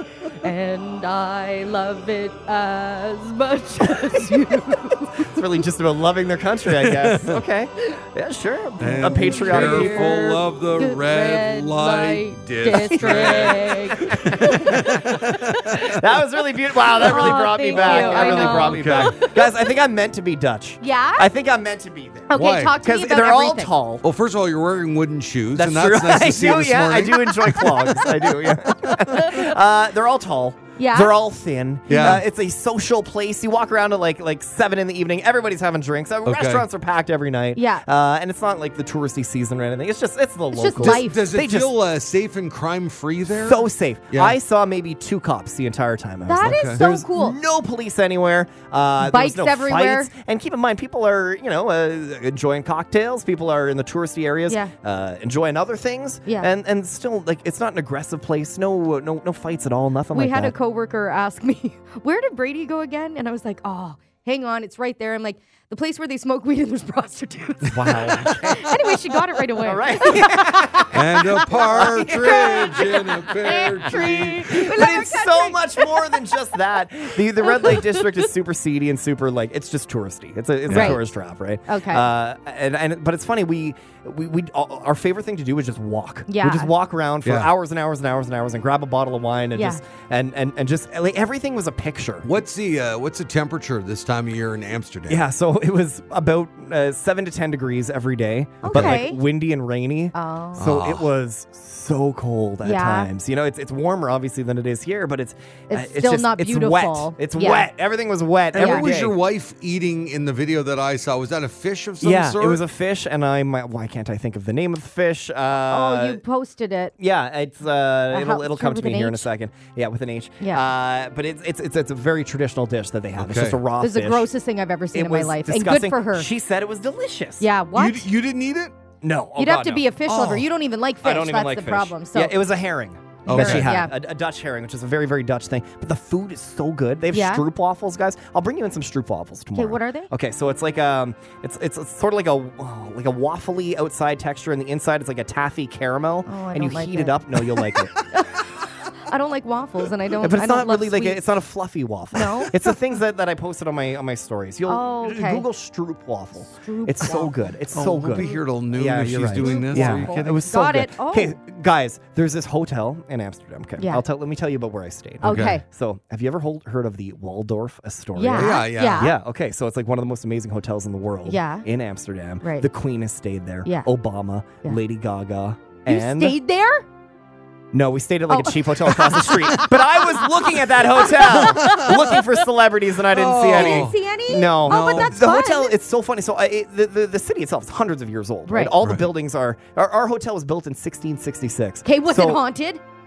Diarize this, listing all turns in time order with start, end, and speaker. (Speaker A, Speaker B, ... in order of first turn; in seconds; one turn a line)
Speaker A: 0.4-5.2
Speaker B: 5.2-10.3
Speaker C: 6.7-7.4
Speaker C: 8.8-16.0
Speaker A: 8.8-15.1
Speaker B: 13.0-13.5
Speaker B: 14.1-14.5
Speaker B: 15.9-24.1
Speaker A: 17.0-19.5
Speaker C: 17.9-19.2
Speaker A: 20.8-21.3
Speaker A: 22.3-23.8
Speaker C: 22.3-22.8
Speaker C: 24.0-29.2
Speaker B: 25.6-41.7
Speaker A: 29.1-29.4
Speaker A: 30.8-31.1
Speaker C: 31.9-32.2
Speaker A: 31.9-32.2
Speaker C: 36.2-36.7
Speaker A: 37.5-37.9
Speaker A: 40.5-41.2
Speaker C: 40.8-44.4
Speaker B: 43.4-60.5
Speaker A: 46.3-47.4
Speaker C: 46.4-46.8
Speaker A: 49.0-50.1
Speaker A: 60.1-76.1
Speaker B: 67.7-68.7
Speaker C: 68.1-68.6
Speaker B: 69.6-72.7
Speaker C: 70.9-74.8
Speaker B: 74.5-92.3
Speaker A: 77.4-78.0
Speaker C: 80.7-81.0
Speaker A: 80.7-81.0
Speaker A: 81.7-82.1
Speaker A: 86.3-86.7
Speaker C: 87.2-87.5
Speaker A: 89.5-89.8
Speaker C: 92.2-95.3
Speaker B: 95.1-109.1
Speaker A: 98.6-99.2
Speaker C: 98.7-99.0
Speaker A: 100.1-100.6
Speaker C: 100.6-101.1
Speaker A: 102.6-103.1
Speaker A: 105.7-107.7
Speaker C: 108.5-112.6
Speaker A: 108.6-108.9
Speaker B: 112.0-116.2
Speaker A: 115.7-116.9
Speaker B: 117.0-124.3
Speaker A: 118.1-119.3
Speaker C: 123.2-123.6
Speaker A: 123.8-126.3
Speaker B: 124.9-127.5
Speaker A: 127.4-128.1
Speaker C: 127.8-128.7
Speaker B: 129.0-130.5
Speaker A: 129.4-132.4
Speaker B: 131.0-148.0
Speaker C: 133.3-133.8
Speaker A: 133.3-133.9
Speaker A: 137.1-137.5
Speaker A: 139.6-140.1
Speaker A: 146.3-147.2
Speaker A: 148.1-151.2
Speaker B: 150.2-176.4
Speaker A: 152.1-152.6
Speaker A: 154.7-155.4
Speaker A: 156.5-157.5
Speaker C: 157.7-160.4
Speaker A: 159.4-161.4
Speaker A: 163.8-164.0
Speaker C: 165.2-165.6
Speaker A: 165.2-165.6
Speaker A: 168.2-169.1
Speaker C: 168.3-169.2
Speaker A: 171.3-171.7
Speaker A: 172.4-172.7
Speaker A: 175.9-176.8
Speaker B: 177.7-192.4
Speaker A: 178.3-180.3
Speaker A: 180.8-182.3
Speaker C: 181.2-182.2
Speaker C: 183.1-184.0
Speaker A: 183.5-185.8
Speaker C: 184.6-185.2
Speaker A: 188.5-188.8
Speaker C: 188.8-189.1
Speaker A: 191.8-192.8